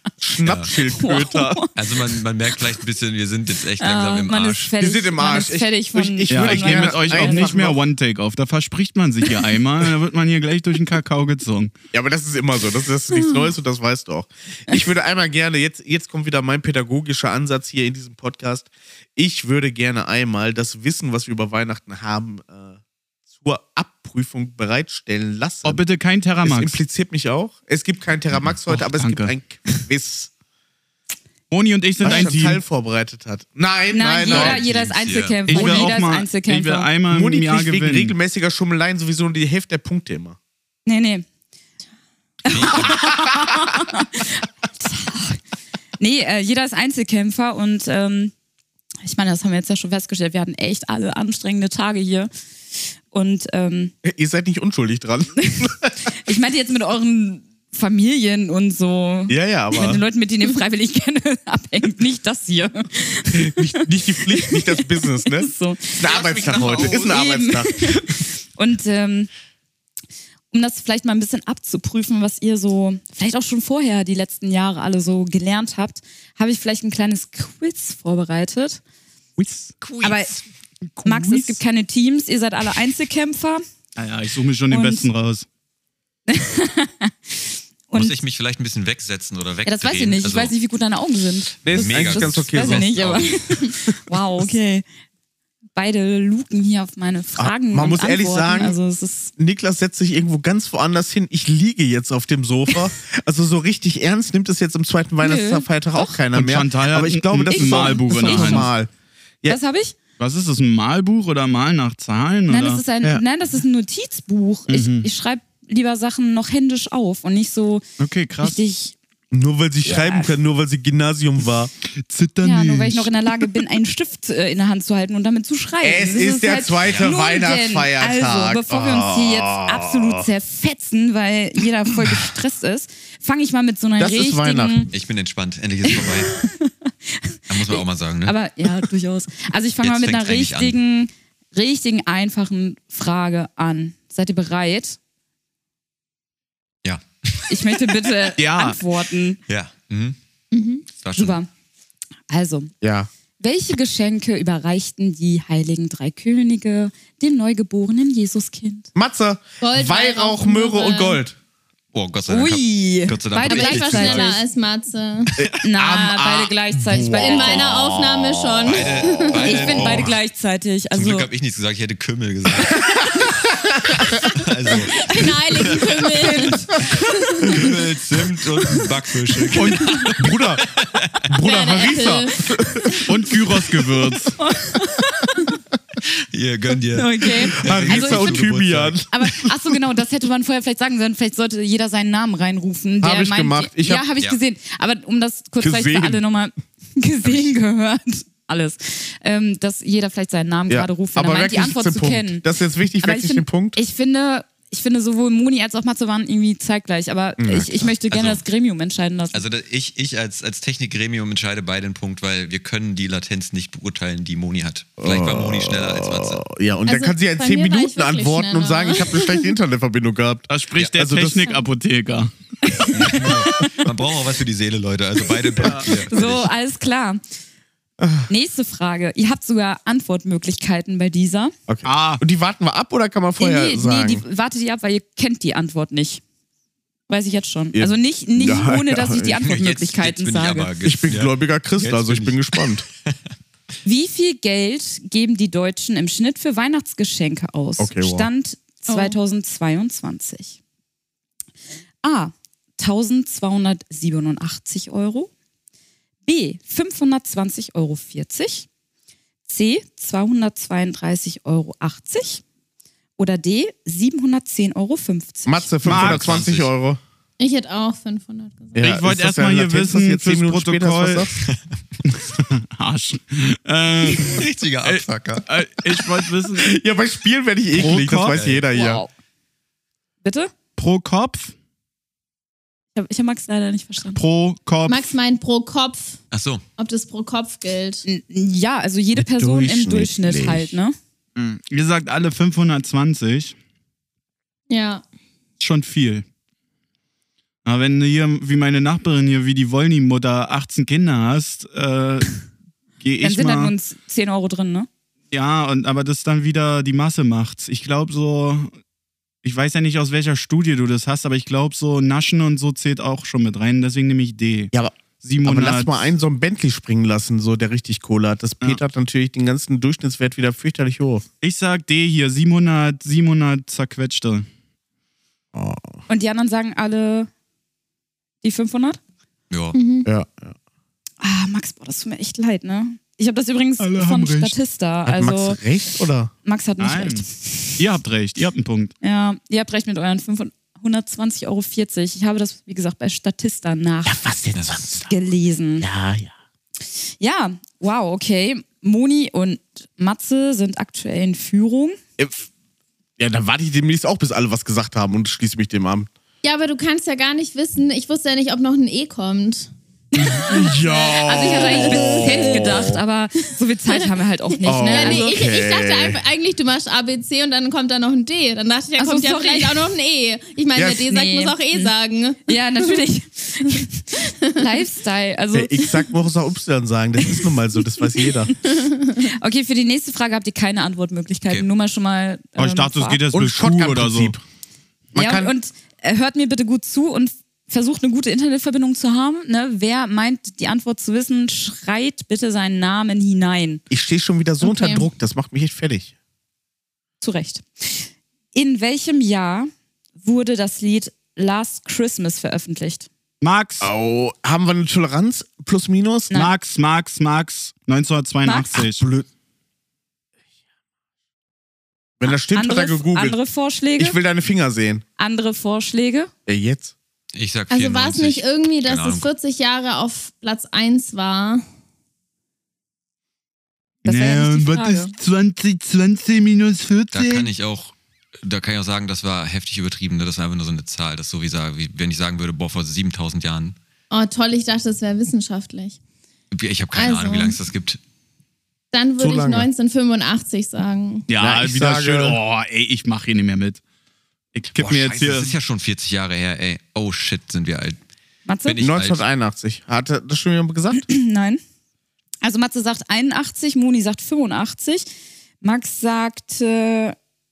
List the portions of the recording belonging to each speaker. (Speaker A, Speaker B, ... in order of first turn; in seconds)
Speaker A: 0.2-1.7, 4.8-7.8, 11.9-22.8, 23.3-25.8, 26.4-30.3, 32.0-34.6, 35.5-35.9, 37.1-40.4, 54.0-55.9, 59.3-60.0, 63.3-68.2, 91.6-94.2, 97.4-98.8, 99.4-108.9, 119.3-121.7, 125.8-130.3, 134.0-134.9, 152.8-153.1, 158.9-161.4, 165.4-170.1, 173.2-174.2, 179.5-180.7, 181.2-183.0, 187.6-189.1, 193.0-194.1, 195.6-196.2, 200.7-203.8, 207.4-207.9, 215.0-221.5, 228.0-228.3, 231.7-234.2, 237.7-239.5, 240.8-242.8, 247.8-248.3, 265.5-267.0, 268.8-271.3, 276.6-279.0, 289.1-290.8, 314.7-321.2, 325.5-326.0, 330.0-330.5, 335.1-336.3, 344.0-345.1, 345.8-346.3, 352.2-352.5, 353.2-356.1, 360.4-363.0, 364.6-366.2, 370.7-371.1, 375.5-378.6, 383.3-384.4, 385.1-385.5, 393.9-396.1, 403.8-406.3, 408.8-409.3, 412.2-413.4, 414.0-415.0, 416.5-416.9, 439.2-439.7, 441.4-442.4, 448.8-451.1
Speaker B: 0.4-0.7, 1.8-4.7, 34.2-35.7, 42.5-43.1, 66.0-67.1, 79.8-80.2, 87.9-90.5, 91.7-93.7, 126.8-127.1, 134.9-136.4, 137.5-138.4, 139.8-140.8, 146.8-147.9, 149.5-150.2, 151.0-151.4, 161.9-164.3, 167.2-170.2, 170.9-173.0, 174.2-176.5, 177.5-181.2, 186.0-189.1, 208.1-208.4, 209.3-216.4, 222.9-226.5, 239.4-243.2, 265.9-266.7, 271.4-271.8, 274.1-276.1, 278.3-278.6, 286.3-286.6, 329.5-329.8, 344.5-344.8, 417.3-419.3, 427.1-433.8, 436.5-438.0, 444.7-448.0, 448.6-449.2
Speaker C: 0.9-1.7, 3.8-7.5, 13.1-13.5, 33.9-36.9, 40.9-41.2, 42.5-45.4, 46.0-48.3, 49.0-52.3, 53.1-53.9, 55.5-66.1, 66.8-69.3, 70.5-78.8, 80.0-80.4, 81.0-83.6, 84.7-85.1, 86.3-88.2, 89.6-94.8, 95.8-99.3, 105.2-106.2, 107.5-108.7, 109.5-110.0, 112.5-117.8, 118.4-119.0, 119.8-120.4, 122.4-134.9, 135.9-145.0, 147.5-149.4, 151.2-151.5, 152.3-152.7, 153.4-158.9, 162.3-164.4, 165.6-167.6, 169.4-171.3, 175.0-176.7, 184.4-185.5, 186.9-188.5, 189.1-202.4, 203.0-209.4, 222.6-223.8, 225.7-227.2, 228.3-231.5, 233.4-236.2, 237.1-240.7, 243.8-250.6, 252.0-255.3, 256.2-258.7, 259.5-262.4, 263.2-265.7, 278.7-279.1, 280.2-280.5, 282.9-284.2, 288.0-290.9, 303.2-304.9, 326.1-327.3, 328.4-329.0, 331.2-335.6, 336.4-337.8, 339.0-344.2, 345.0-345.9, 347.2-352.0, 360.2-365.4, 369.0-369.9, 371.1-371.9, 372.4-376.1, 379.2-383.2, 385.1-393.8, 397.2-403.1, 408.4-408.8, 412.3-414.2, 415.2-416.3, 424.0-425.1, 448.5-448.8, 450.9-451.6, 452.4-455.1, 455.6-457.2
Speaker D: 6.3-11.7, 25.6-26.8, 28.7-29.3, 31.5-32.6, 35.5-38.1, 79.4-79.7, 80.8-81.6, 84.0-85.5, 106.3-108.7, 110.2-113.2, 114.7-115.1, 118.0-118.6, 122.0-123.6, 148.4-148.8, 183.1-184.4, 220.5-222.3, 225.6-225.9, 231.8-232.2, 265.8-266.4, 268.8-271.3, 272.1-276.7, 277.7-278.4, 280.8-281.5, 284.1-285.1, 291.4-293.5, 295.6-296.2, 297.6-302.4, 303.0-303.7, 305.3-308.7, 309.4-316.1, 321.4-324.5, 333.8-334.6, 336.8-337.3, 337.8-338.9, 382.6-384.4, 403.4-403.9, 406.3-409.1, 424.0-427.5, 441.3-443.8, 444.5-445.5
Speaker E: 150.5-150.8, 159.6-161.2, 163.4-165.3, 167.1-169.5, 175.0-177.6, 181.4-182.5, 216.9-219.5, 248.9-249.2, 267.4-268.9, 284.9-286.2, 286.8-288.0, 294.7-295.0, 329.8-330.1, 356.4-359.7, 364.7-372.9, 374.2-374.7, 378.8-379.2, 394.6-395.1, 417.7-421.6, 434.1-436.0, 436.9-437.6, 438.9-441.3